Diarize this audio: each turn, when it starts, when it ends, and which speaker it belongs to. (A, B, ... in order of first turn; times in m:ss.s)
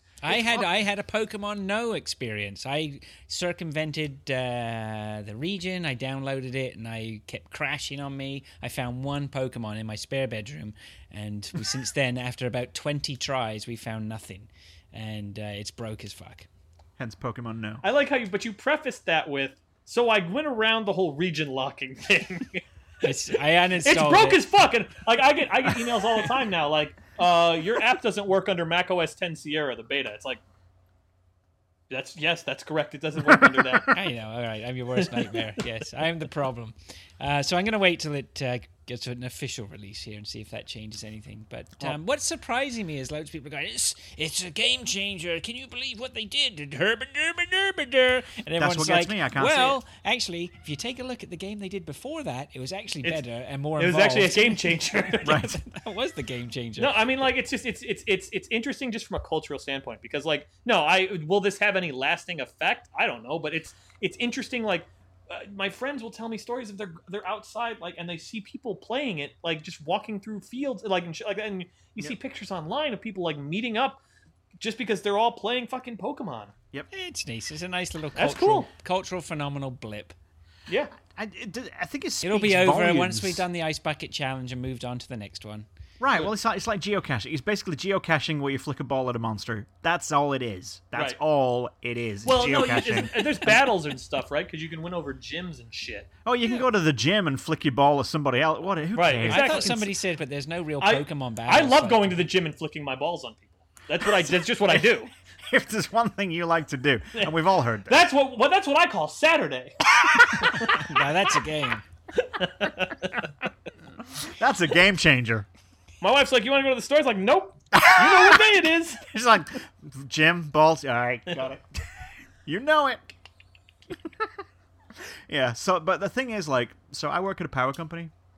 0:00.2-0:16.5 A
0:00.3-0:00.7 B
0:17.0-0:17.8 B
0:17.8-0:30.4 C
0:23.0-0:24.4 A
0:31.9-0:34.0 C
0:33.9-0:57.0 A
0:35.1-0:35.4 C
0:48.6-0:49.8 B
0:53.8-0:55.5 C
0:55.2-0:55.6 B
0:56.8-1:14.0 C
1:14.6-1:16.5 C
1:16.9-1:20.2 A
1:18.2-1:18.7 C
1:20.7-1:20.9 C
1:21.0-1:23.4 B
1:22.2-1:25.7 A
1:26.0-1:33.7 B
1:32.2-1:36.1 C
1:36.2-1:39.9 B
1:38.9-1:39.9 C
1:39.3-1:42.3 A
1:40.8-1:45.1 C
1:44.0-1:44.8 B
1:45.4-1:48.0 B
1:47.2-1:49.7 C
1:50.1-1:50.3 B
1:50.3-1:50.8 C
1:50.6-1:51.8 A
1:52.2-1:53.3 C
1:54.2-1:55.5 B
1:56.0-1:59.0 C
1:57.7-2:01.9 B
2:02.4-2:03.1 B
2:03.9-2:04.3 B
2:05.3-2:08.1 B